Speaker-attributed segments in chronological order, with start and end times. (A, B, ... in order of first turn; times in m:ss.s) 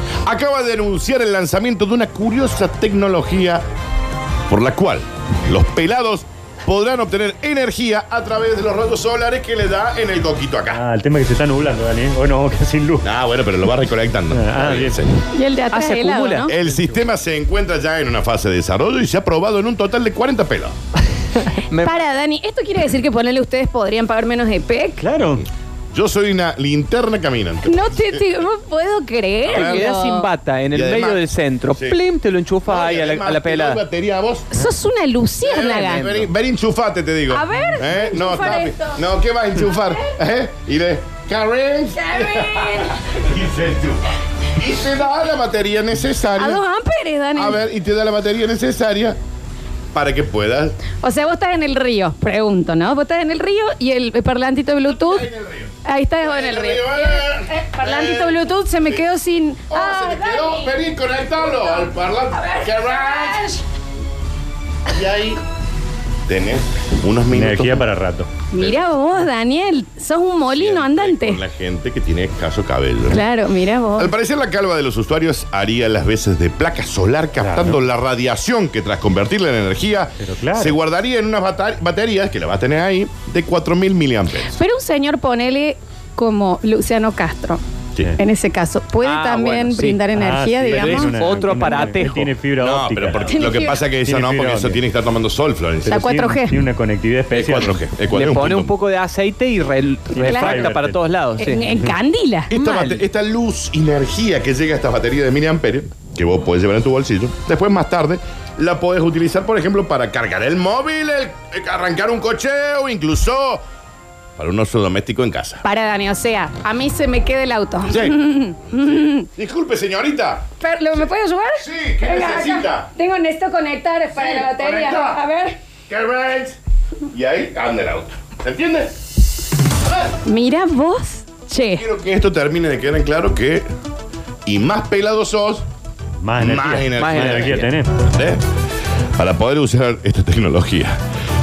0:00.2-0:03.6 A
0:04.5-0:10.8 A
0:10.7-0:13.1 B
0:13.0-0:15.2 A
0:14.3-0:15.0 B
0:15.3-0:16.5 C
0:15.7-0:16.5 D
0:16.5-0:20.7 A
0:16.6-0:17.0 B
0:21.4-0:22.0 D
0:21.8-0:25.0 C
0:25.0-0:25.4 B
0:25.9-0:28.2 A
0:27.6-0:30.3 C
0:29.4-0:29.9 A
0:29.5-0:33.8 D
0:30.7-0:32.0 A
0:32.7-0:34.5 A
0:34.5-0:36.1 C
0:35.4-0:46.6 A
0:35.6-0:36.3 D
0:37.3-0:39.0 C
0:39.6-0:40.1 C
0:42.0-0:43.0 C
0:46.4-0:47.6 C
0:47.4-0:49.2 A
0:49.9-0:50.8 A
0:51.0-0:55.3 C
0:54.9-0:59.0 A
0:55.8-1:00.7 C
0:59.7-1:03.6 A
1:02.4-1:03.6 C
1:04.9-1:05.4 A
1:06.3-1:07.9 A
1:07.3-1:08.3 B
1:08.5-1:11.4 C
1:08.6-1:08.9 A
1:10.5-1:13.3 A
1:13.1-1:14.1 C
1:14.0-1:24.5 A
1:17.4-1:17.8 B
1:20.2-1:20.8 B
1:24.5-1:27.6 C
1:28.2-1:32.0 C
1:29.0-1:30.0 D
1:30.1-1:34.8 B
1:30.7-1:32.3 D
1:32.6-1:36.0 A
1:33.1-1:33.8 C
1:35.8-1:37.8 B
1:35.9-1:36.6 C
1:37.3-1:38.7 A
1:38.1-1:41.7 D
1:40.1-1:41.0 B
1:40.2-1:40.8 C
1:41.4-1:42.5 C
1:42.5-1:53.6 A
1:42.5-1:43.0 D
1:54.4-1:55.6 A
1:55.6-1:59.3 C
1:57.9-1:58.2 A
1:58.7-2:00.5 A
2:00.6-2:05.6 C
2:01.6-2:02.9 A
2:04.1-2:05.2 A
2:05.9-2:06.6 A
2:07.1-2:09.0 A
2:10.2-2:11.8 C
2:11.8-2:13.7 A
2:14.5-2:15.6 A
2:16.2-2:17.9 B
2:16.4-2:18.4 A
2:17.0-2:17.7 D
2:19.2-2:21.0 A